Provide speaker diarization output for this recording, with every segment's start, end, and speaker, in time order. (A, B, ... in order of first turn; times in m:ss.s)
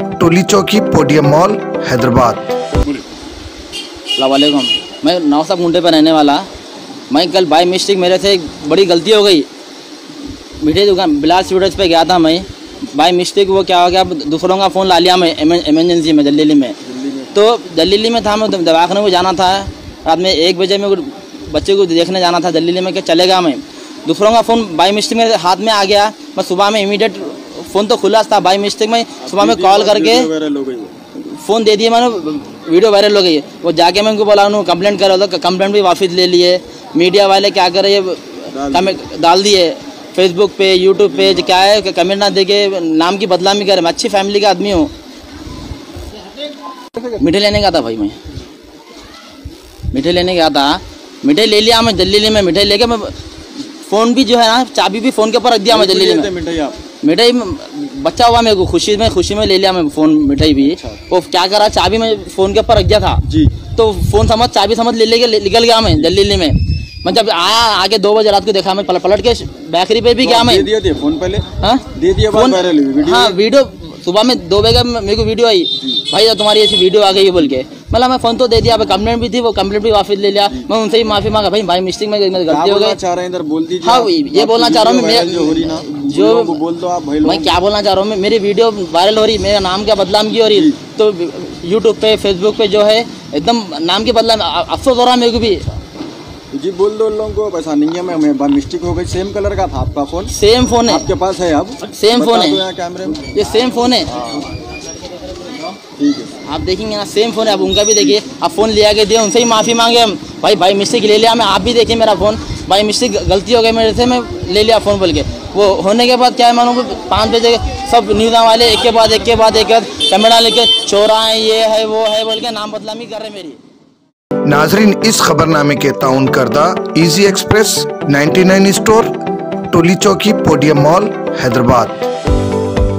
0:00.2-0:02.5 A
0:04.2-0:06.5 B
0:07.1-0:09.5 B
0:10.6-0:16.8 B
0:16.8-0:17.3 C
0:17.3-0:30.3 B
0:29.2-0:30.9 C
0:31.2-0:44.9 B
0:38.5-0:39.0 C
0:47.2-0:48.2 B
0:49.9-0:53.2 B
0:53.8-0:56.3 B
0:55.7-0:56.8 C
0:57.0-1:10.7 B
1:00.6-1:01.0 C
1:03.3-1:03.5 C
1:10.2-1:13.4 C
1:11.6-1:23.0 B
1:22.5-1:27.5 C
1:23.8-1:26.6 B
1:27.2-1:35.6 B
1:30.5-1:30.8 C
1:36.5-1:40.3 C
1:40.3-1:41.1 B
1:40.8-1:43.3 C
1:41.8-1:42.6 B
1:43.3-1:44.4 B
1:46.0-1:46.3 C
1:46.4-2:03.6 B
2:04.4-2:09.1 A
2:09.7-2:12.0 A